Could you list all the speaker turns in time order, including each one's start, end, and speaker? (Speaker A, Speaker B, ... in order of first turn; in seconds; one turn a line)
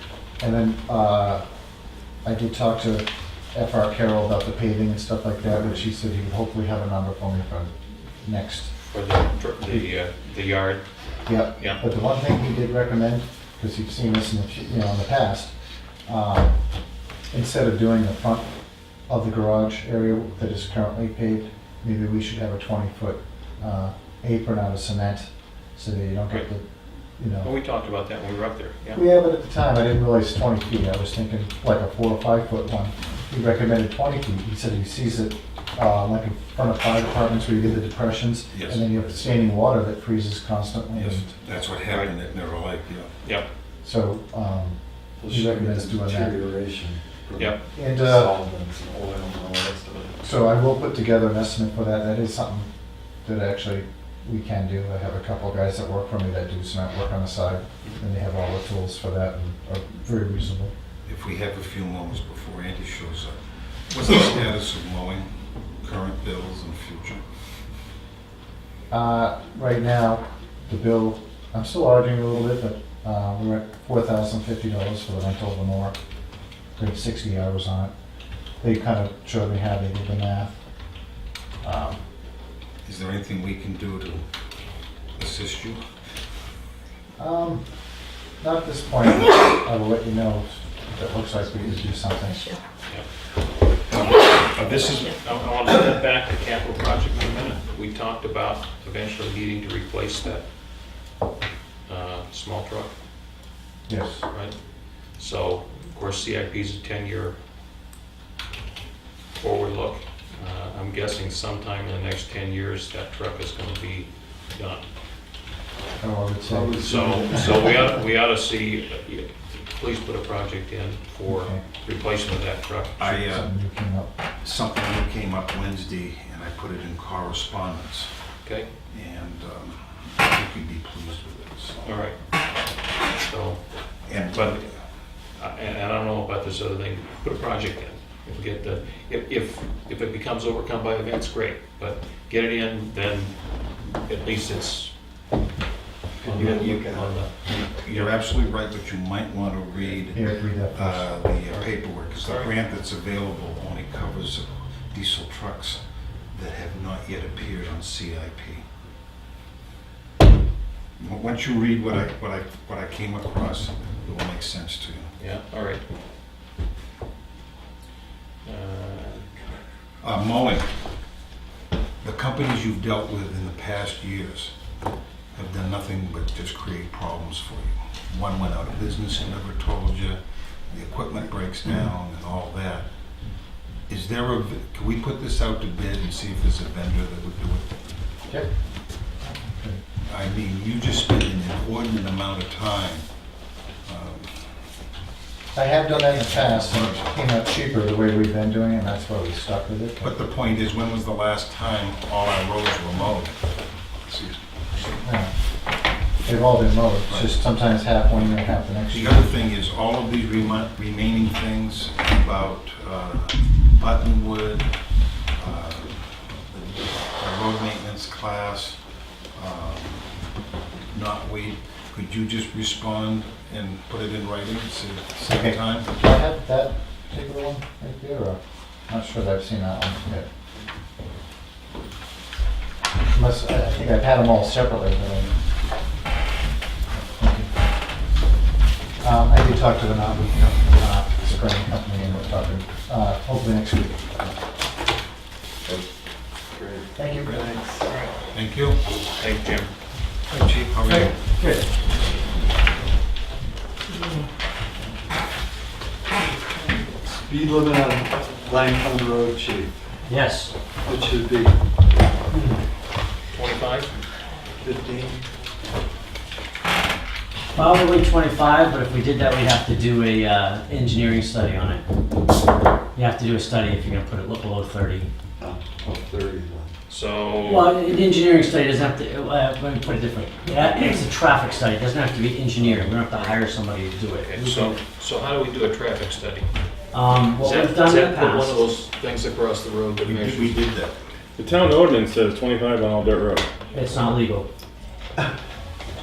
Speaker A: 0.4-1.4
Speaker A: 2.2-8.7
Speaker B: 8.8-11.8
Speaker A: 11.2-15.5
Speaker A: 16.1-16.6
Speaker A: 17.3-18.5
Speaker A: 19.1-26.6
Speaker A: 27.2-27.5
Speaker B: 27.4-29.0
Speaker A: 28.9-41.2
Speaker C: 38.5-38.8
Speaker C: 40.9-43.1
Speaker A: 43.8-46.3
Speaker D: 45.2-50.2
Speaker A: 47.8-48.3
Speaker A: 50.2-52.7
Speaker A: 53.2-60.7
Speaker C: 61.1-65.3
Speaker C: 65.8-67.2
Speaker A: 68.9-76.0
Speaker A: 76.8-77.9
Speaker A: 78.6-80.6
Speaker A: 81.6-82.0
Speaker C: 82.8-84.2
Speaker C: 85.2-85.8
Speaker A: 87.2-87.6
Speaker A: 88.4-92.5
Speaker B: 93.9-100.4
Speaker B: 101.9-102.9
Speaker A: 103.9-104.3
Speaker B: 104.3-104.6
Speaker B: 105.1-107.4
Speaker B: 109.3-114.9
Speaker A: 116.0-117.4
Speaker D: 116.5-118.0
Speaker B: 116.8-123.0
Speaker A: 121.3-121.6
Speaker C: 123.0-123.5
Speaker A: 123.0-124.1
Speaker C: 124.4-128.1
Speaker C: 128.9-132.0
Speaker B: 131.8-132.2
Speaker B: 133.2-134.6
Speaker C: 134.1-134.7
Speaker B: 135.4-143.4
Speaker B: 143.9-144.9
Speaker D: 146.2-147.1
Speaker B: 146.2-147.3
Speaker C: 147.6-158.6
Speaker A: 150.1-151.1
Speaker B: 151.5-152.5
Speaker C: 161.0-165.1
Speaker B: 165.2-165.8
Speaker B: 168.4-169.3
Speaker C: 170.0-170.7
Speaker C: 172.0-174.6
Speaker C: 175.3-182.9
Speaker C: 183.9-187.7
Speaker A: 189.5-189.8
Speaker C: 190.1-193.1
Speaker C: 193.9-194.3
Speaker A: 195.6-200.1
Speaker C: 196.1-197.1
Speaker C: 200.0-203.4
Speaker C: 204.1-204.4
Speaker A: 205.0-205.3
Speaker A: 206.2-209.4
Speaker C: 208.9-214.7
Speaker C: 215.3-218.8
Speaker C: 219.3-220.1
Speaker C: 220.9-225.9
Speaker A: 225.2-230.3
Speaker A: 233.1-235.4
Speaker A: 237.1-237.5
Speaker A: 239.0-244.3
Speaker D: 246.5-247.9
Speaker A: 247.0-247.5
Speaker C: 248.3-248.8
Speaker B: 249.2-249.7
Speaker C: 250.4-251.1
Speaker E: 250.8-251.7
Speaker D: 257.1-259.8
Speaker E: 260.1-260.6
Speaker D: 260.8-261.6
Speaker B: 263.3-263.9
Speaker D: 264.6-265.2
Speaker E: 267.5-271.8
Speaker E: 272.9-275.1
Speaker D: 275.4-276.7
Speaker B: 276.9-277.7
Speaker E: 277.4-284.8
Speaker B: 284.2-286.5
Speaker E: 286.9-288.6
Speaker B: 287.4-290.6
Speaker C: 290.0-291.0
Speaker F: 291.4-293.4
Speaker E: 293.7-294.5